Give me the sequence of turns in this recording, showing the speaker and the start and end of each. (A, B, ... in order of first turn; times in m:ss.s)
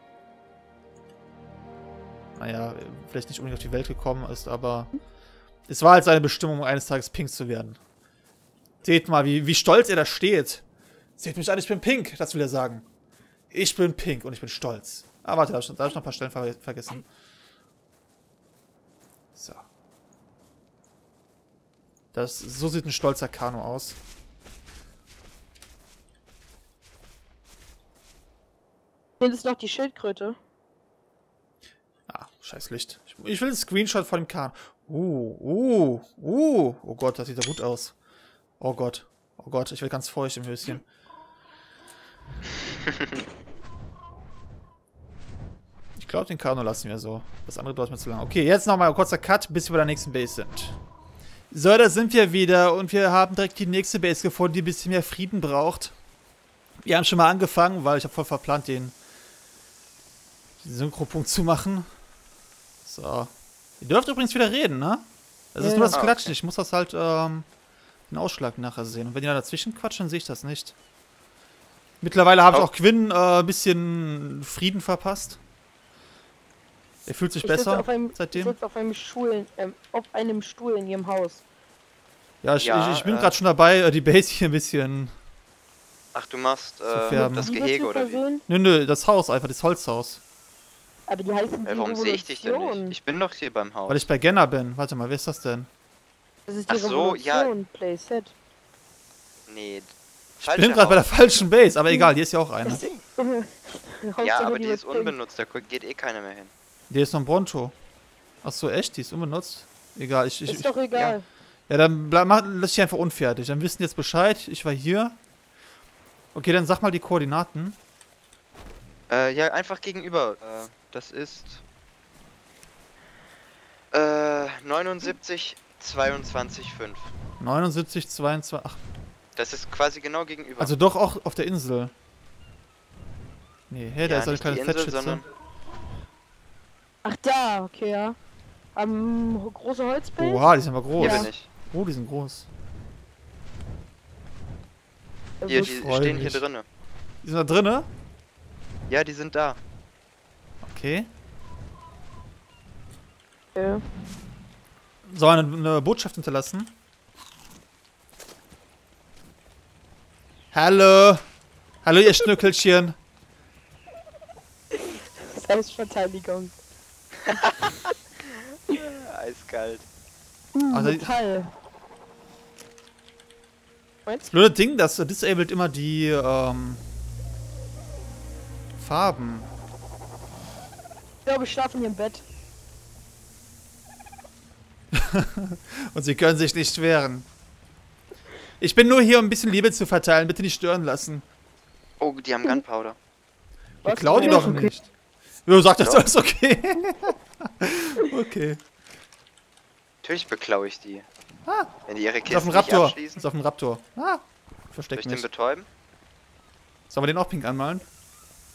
0:02.4-0:04.9 A
0:05.7-0:07.8 A
0:08.8-0:10.6 A
0:11.2-0:12.9 A
0:13.5-0:17.1 A
0:19.4-0:19.6 A
0:22.1-0:24.0 A
0:29.2-0:30.4 B
0:32.1-0:38.0 A
0:38.6-0:40.9 A
0:46.0-0:50.8 A
0:51.5-0:55.9 A
0:56.8-0:59.0 A
1:00.6-1:01.9 A
1:02.8-1:07.5 A
1:05.6-1:06.0 B
1:05.9-1:06.4 C
1:08.1-1:10.8 A
1:12.0-1:15.4 A
1:17.1-1:18.6 A
1:17.4-1:21.4 B
1:22.4-1:25.1 A
1:22.6-1:23.4 C
1:26.1-1:28.2 C
1:26.9-1:27.5 A
1:27.1-1:28.4 B
1:28.5-1:30.2 A
1:31.1-1:33.0 B
1:31.7-1:34.1 C
1:33.9-1:35.7 A
1:36.5-1:38.4 B
1:36.7-1:37.5 C
1:39.5-1:41.5 C
1:40.4-1:42.8 A
1:42.6-1:45.1 B
1:44.2-1:46.5 C
1:46.9-1:47.8 A
1:48.4-1:50.7 A
1:50.5-1:51.2 B
1:51.7-1:55.2 A
1:56.3-1:57.8 A
1:59.1-2:01.6 C
2:03.9-2:07.1 C
2:07.4-2:08.8 A
2:09.4-2:10.7 C
2:10.6-2:11.9 A
2:13.7-2:15.2 A
2:14.0-2:15.2 C
2:17.0-2:18.2 B
2:18.8-2:20.5 B
2:20.2-2:22.5 A
2:21.0-2:21.3 B
2:21.0-2:21.5 C
2:25.4-2:25.7 B
2:25.5-2:26.6 C
2:25.7-2:26.4 A
2:27.2-2:27.9 A
2:28.9-2:29.6 C
2:30.6-2:31.1 A
2:33.6-2:33.8 B
2:35.1-2:36.8 A
2:40.5-2:41.2 A
2:41.8-2:43.0 A
2:44.7-2:46.5 B
2:47.3-2:47.7 C
2:48.7-2:49.9 C
2:50.5-2:51.5 B
2:50.7-2:51.1 A
2:54.1-2:54.3 B
2:54.3-2:56.8 A
2:58.8-2:59.5 A
3:01.3-3:02.2 B
3:04.9-3:07.3 A
3:08.6-3:11.2 A
3:12.0-3:13.0 C
3:13.8-3:14.9 A
3:13.8-3:14.7 B
3:15.5-3:18.6 A
3:20.0-3:21.1 C
3:21.5-3:21.7 A
3:21.9-3:23.2 C
3:22.3-3:25.3 A
3:24.9-3:25.7 C
3:26.9-3:27.9 A